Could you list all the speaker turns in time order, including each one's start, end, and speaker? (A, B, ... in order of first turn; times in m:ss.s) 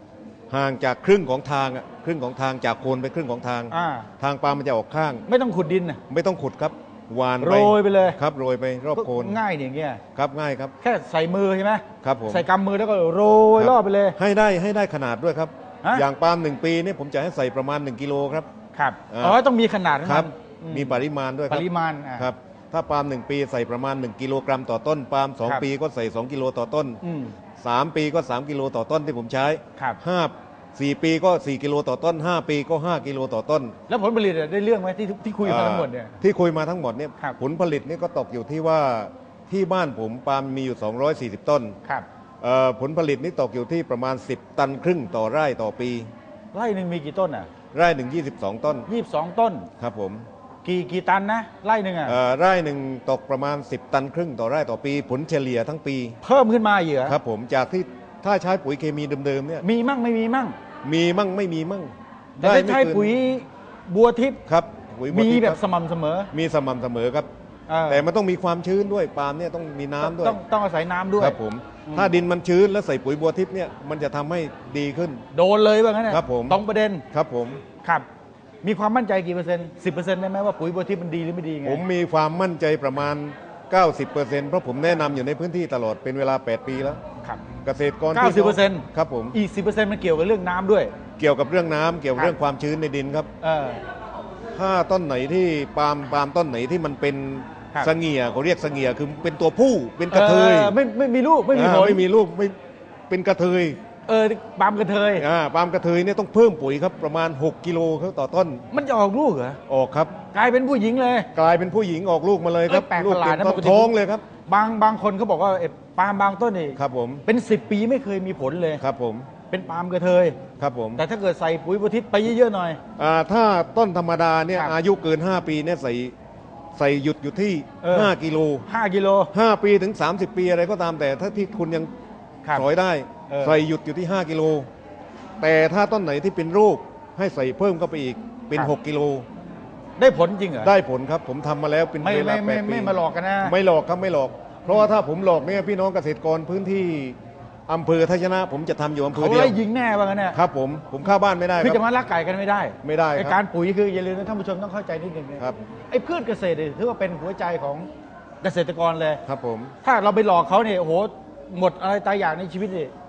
0:00.5-0:05.2 A
0:03.7-0:04.1 B
0:05.3-0:06.0 B
0:06.1-0:09.4 A
0:07.4-0:08.2 B
0:09.0-0:10.0 B
0:10.2-0:10.8 A
0:10.8-0:14.2 B
0:12.0-0:12.5 A
0:13.6-0:18.5 A
0:18.7-0:21.0 B
0:19.1-0:19.4 A
0:20.0-0:21.6 A
0:21.5-0:22.3 B
0:22.2-0:27.0 A
0:27.0-0:27.3 B
0:27.6-0:33.8 A
0:33.9-0:36.2 B
0:35.4-0:41.8 A
0:42.4-0:46.1 A
0:46.5-0:47.5 B
0:47.7-0:48.9 A
0:48.9-0:49.7 B
0:49.8-0:50.3 A
0:50.6-0:52.2 B
0:52.1-0:56.2 A
0:56.2-0:57.2 B
0:57.0-0:59.6 A
0:59.6-1:00.6 B
1:00.8-1:03.1 A
1:02.4-1:04.4 B
1:04.5-1:05.6 A
1:05.1-1:06.3 B
1:06.3-1:07.3 A
1:07.7-1:08.0 B
1:07.9-1:10.4 A
1:10.0-1:12.1 B
1:11.2-1:15.2 A
1:15.3-1:17.0 B
1:16.1-1:16.6 A
1:17.1-1:17.6 A
1:18.6-1:21.8 B
1:21.6-1:27.0 A
1:27.6-1:29.4 A
1:28.1-1:30.9 B
1:31.2-1:33.3 A
1:33.4-1:33.8 B
1:34.6-1:40.8 A
1:40.1-1:42.0 B
1:41.5-1:42.6 A
1:43.1-1:43.8 A
1:44.1-1:45.3 B
1:45.2-1:48.6 A
1:48.7-1:49.6 B
1:49.7-1:50.2 A
1:50.3-1:51.3 B
1:51.3-1:54.3 A
1:52.7-1:53.9 B
1:54.5-1:58.8 B
1:56.8-1:57.2 A
1:58.8-1:59.3 A
1:59.5-2:00.4 B
2:00.6-2:01.0 A
2:01.0-2:02.8 B
2:03.0-2:06.1 A
2:06.8-2:08.7 A
2:07.8-2:08.1 B
2:08.7-2:09.3 B
2:09.3-2:11.9 A
2:12.5-2:14.7 A
2:13.3-2:13.6 B
2:15.4-2:19.3 A
2:20.0-2:20.7 B
2:20.6-2:27.2 A
2:22.0-2:23.5 B
2:27.7-2:29.6 A
2:29.1-2:30.4 B
2:30.3-2:31.8 A
2:31.6-2:37.9 B
2:32.8-2:33.4 A
2:38.4-2:39.2 B
2:39.2-2:39.8 A
2:39.8-2:42.9 B